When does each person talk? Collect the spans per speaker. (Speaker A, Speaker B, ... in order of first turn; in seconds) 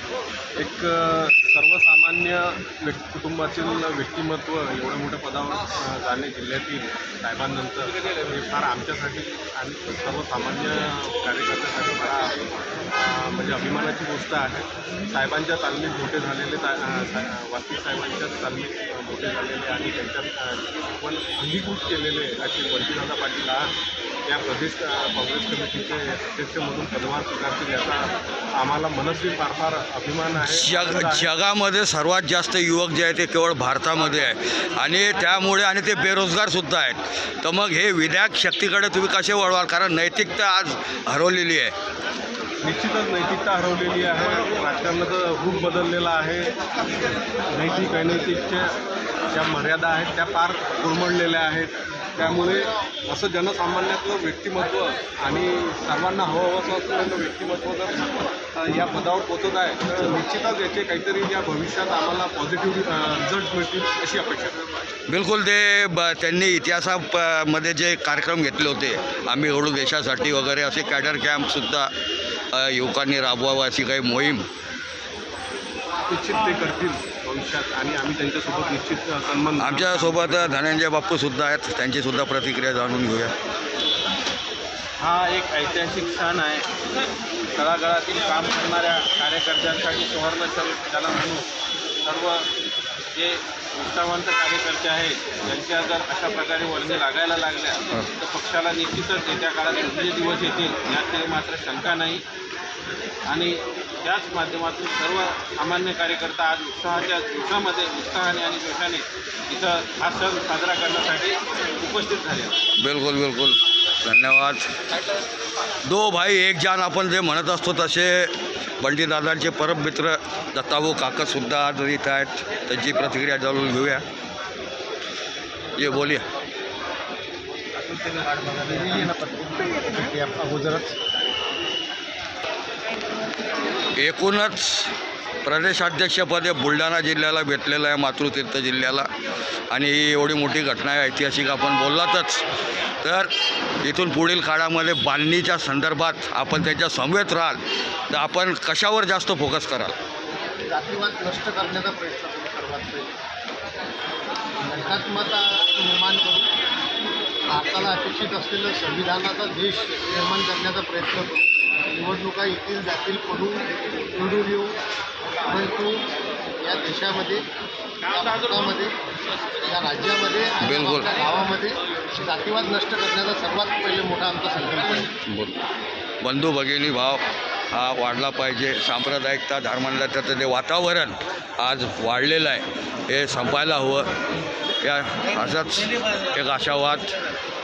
Speaker A: 0.6-23.7, 24.2-31.3, 42.6-46.5, 47.3-48.7, 49.3-64.6, 76.1-80.6
Speaker B: 30.4-41.7, 65.1-71.9, 72.5-74.5, 79.6-83.3, 112.8-114.7, 115.8-124.0, 125.8-126.2, 133.9-134.9, 135.4-139.1, 139.7-142.4, 143.0-143.3, 143.8-149.9, 170.6-171.1, 175.3-175.6, 176.2-184.1, 184.8-187.1
Speaker C: 85.0-86.7, 87.5-91.5, 92.0-92.5, 93.1-102.2, 103.2-112.6
Speaker D: 128.3-130.9, 150.7-153.1, 154.6-156.5, 157.5-164.8, 165.4-166.1, 166.6-167.4, 168.0-168.9, 169.5-175.1